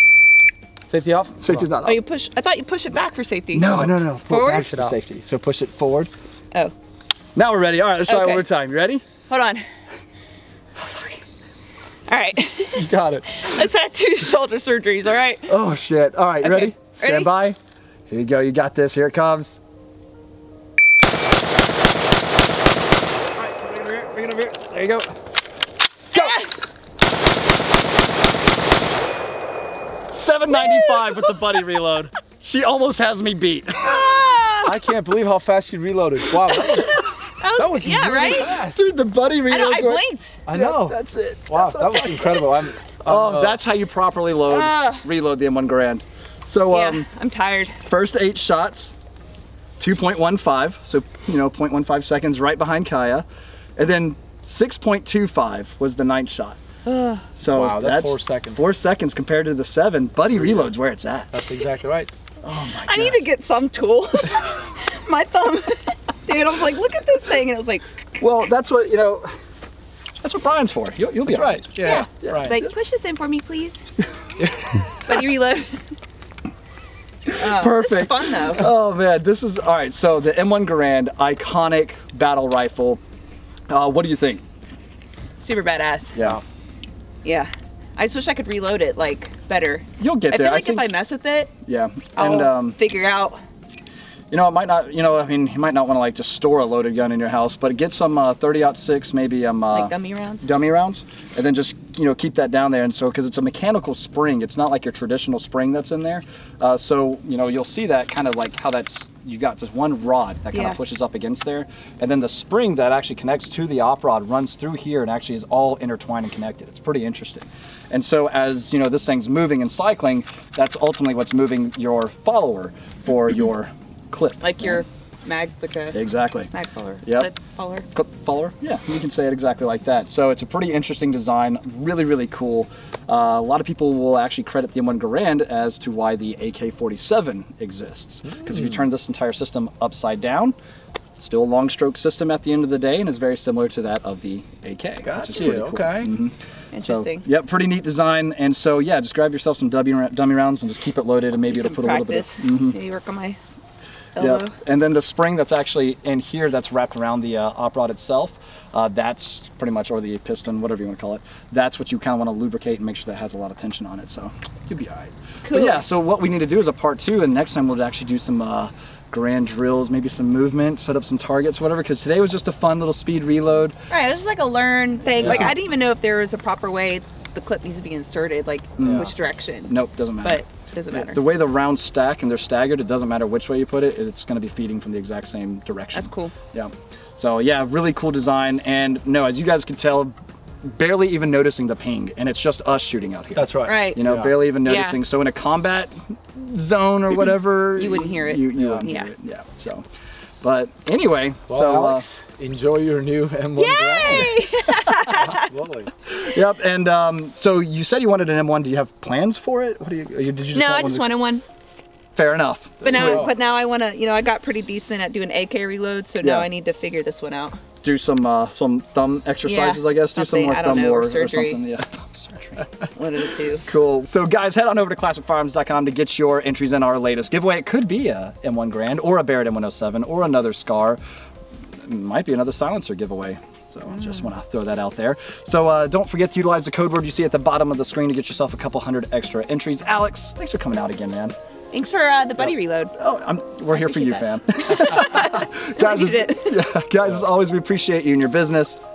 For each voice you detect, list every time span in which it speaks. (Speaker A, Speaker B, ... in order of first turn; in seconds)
Speaker A: 0.9-1.7, 3.8-5.0, 12.7-13.3, 34.6-37.0, 37.5-38.9, 40.5-43.6, 57.5-58.6, 61.3-62.1, 71.2-72.6, 138.2-138.8, 145.0-146.1, 175.2-175.5, 193.3-194.4, 198.5-198.9, 201.5-204.4, 205.1-205.9, 212.8-213.3
Speaker B: 1.4-2.0, 3.5-6.1, 7.3-9.0, 15.5-17.6, 18.1-19.6, 23.4-25.1, 30.1-34.2, 38.5-42.4, 43.0-47.1, 47.8-48.9, 49.8-56.6, 57.3-61.3, 62.4-63.3, 68.2-69.3, 70.2-72.7, 77.3-83.0, 83.7-84.4, 86.1-86.4, 90.0-90.9, 91.6-92.8, 94.3-124.8, 125.9-126.5, 127.0-127.3, 127.9-140.6, 141.2-152.8, 154.2-173.8, 175.1-175.5, 178.8-179.1, 179.7-190.1, 190.7-199.8, 200.4-202.1, 206.1-211.2, 212.1-213.3, 216.2-216.5, 217.8-222.7, 223.7-231.0, 231.8-241.3, 242.4-248.8
Speaker C: 1.8-4.7, 8.1-8.4, 9.3-9.6, 10.8-11.2, 12.1-15.6, 16.4-17.3, 26.1-26.5, 30.5-31.6, 33.8-34.7, 36.6-38.5, 39.5-40.4, 44.5-45.0, 46.7-47.8, 56.9-57.3, 62.8-67.8, 71.8-73.8, 74.9-75.8, 77.3-78.7, 85.4-86.2, 87.2-91.5, 92.1-93.4, 99.7-100.5, 110.5-110.8, 124.4-127.9, 146.7-147.2, 151.5-153.4, 154.2-154.5, 165.4-165.8, 173.9-181.2, 185.9-186.3, 193.6-194.0, 194.6-195.0, 197.8-199.1, 203.6-205.5, 210.5-211.4, 212.8-217.6, 219.4-221.6, 222.9-223.7, 241.7-242.9, 243.7-246.6